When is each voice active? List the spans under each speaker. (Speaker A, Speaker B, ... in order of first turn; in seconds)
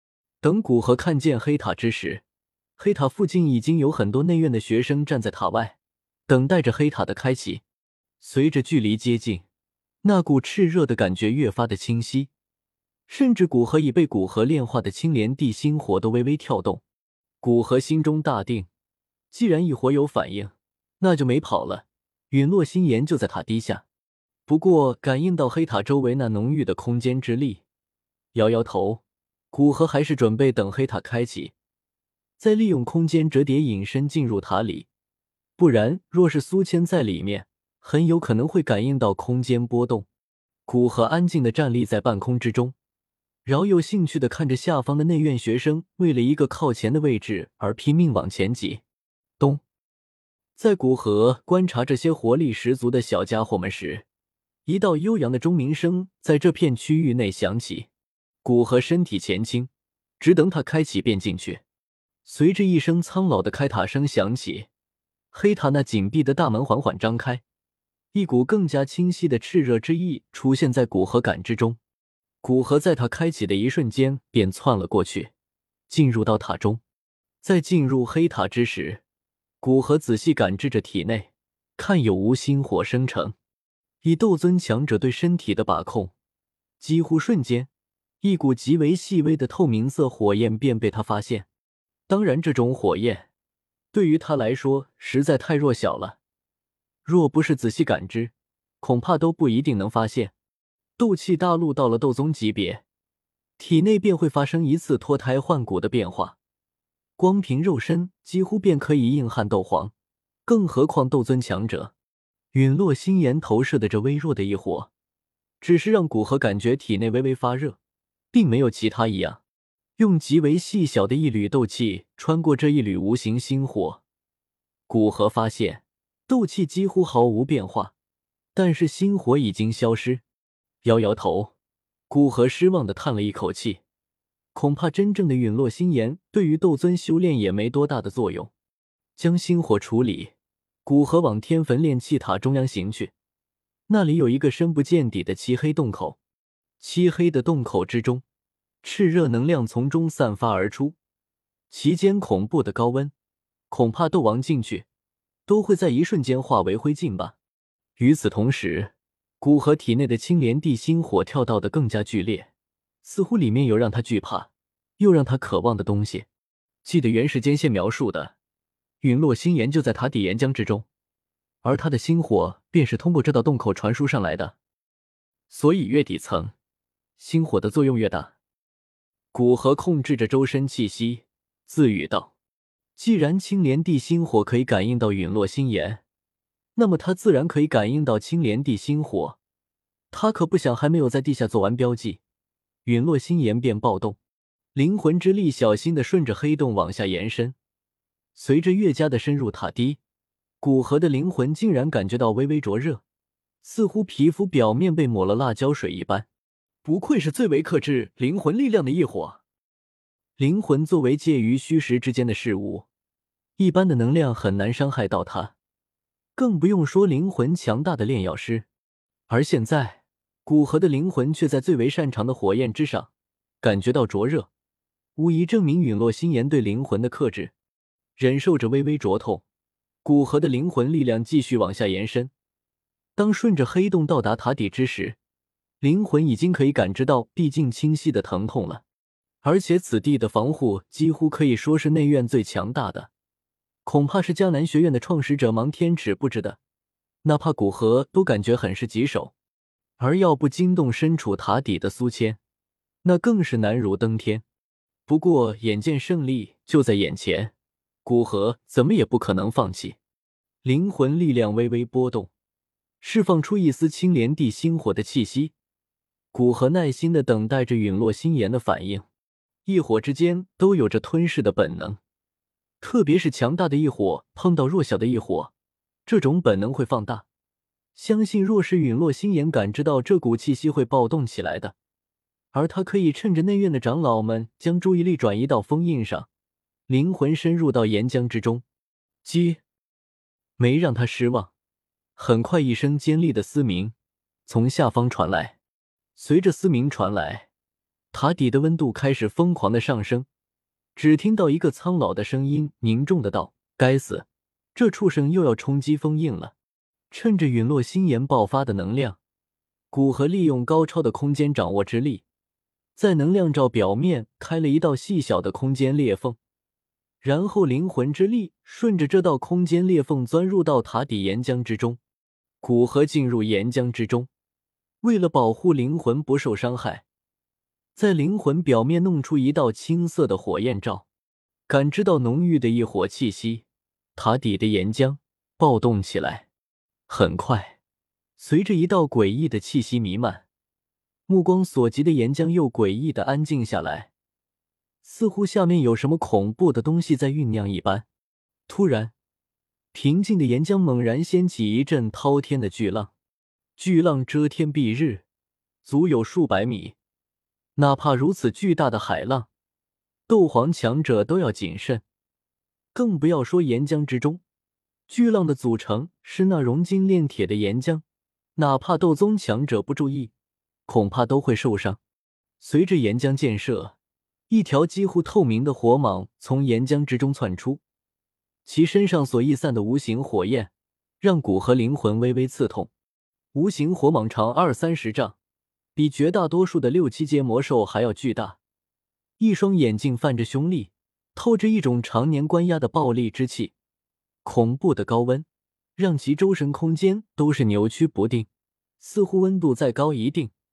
Speaker A: 0.4-2.2, 2.8-7.6, 8.2-9.4, 10.0-12.3, 13.1-16.8, 17.4-18.7, 19.3-23.8, 24.5-27.6, 28.3-31.5, 32.4-34.9, 35.6-40.1, 40.7-42.8, 43.5-48.8, 50.6-54.1, 54.7-57.9, 58.4-61.6, 62.2-64.7, 65.3-67.4, 68.1-71.8, 72.4-75.3, 75.9-76.8, 77.4-79.0, 79.6-83.4, 84.0-86.1, 86.8-87.7, 88.2-91.5, 92.1-93.3, 93.9-96.2, 97.0-100.3, 101.0-102.8, 103.6-106.4, 107.2-109.9, 110.5-111.9, 112.5-114.9, 115.6-117.8, 118.3-119.4, 120.0-124.0, 124.9-127.9, 128.6-130.2, 130.8-131.5, 132.1-133.8, 134.6-138.5, 139.2-140.3, 140.8-143.1, 143.9-146.2, 146.8-148.2, 148.8-151.0, 151.7-153.1, 153.7-154.9, 155.5-157.4, 158.0-162.5, 163.0-166.3, 166.8-168.3, 169.0-170.9, 171.6-174.6, 175.5-176.5, 177.2-178.3, 179.3-182.3, 183.0-186.0, 186.8-189.4, 190.1-192.2, 192.8-194.2, 194.7-197.6, 198.3-200.0, 200.6-203.0, 203.6-206.3, 206.8-209.4, 210.4-212.9, 213.6-215.5, 216.4-218.7, 219.3-224.5, 225.2-227.5, 228.2-229.4, 230.0-232.3, 233.2-235.2, 235.8-238.8, 239.4-243.1, 243.8-246.6, 247.2-249.3, 250.0-252.4, 253.0-254.4, 255.1-257.5, 258.1-260.0, 260.6-262.3, 263.0-265.5, 266.3-269.1, 269.6-272.0, 272.8-275.5, 276.1-277.3, 277.9-281.8, 282.5-286.3, 286.9-288.6, 289.2-289.6, 290.6-291.5, 292.2-293.9, 294.5-295.6, 296.2-297.5, 298.1-300.3, 301.0-306.5, 307.1-309.2, 309.9-312.2, 313.0-316.4, 317.2-322.0, 322.6-324.3, 325.0-327.0, 327.9-331.1, 331.7-333.6, 334.2-336.5, 337.1-337.8, 338.4-340.4, 341.3-344.1, 345.0-348.1, 348.7-349.1, 349.9-353.1, 353.8-355.2, 355.8-357.0, 357.8-359.5, 360.3-362.0, 362.9-364.4, 365.1-368.0, 368.6-370.3, 370.9-372.0, 372.6-373.9, 374.5-377.8, 378.6-382.9, 383.5-385.4, 385.9-388.6, 389.4-393.7, 394.4-398.5, 399.0-400.5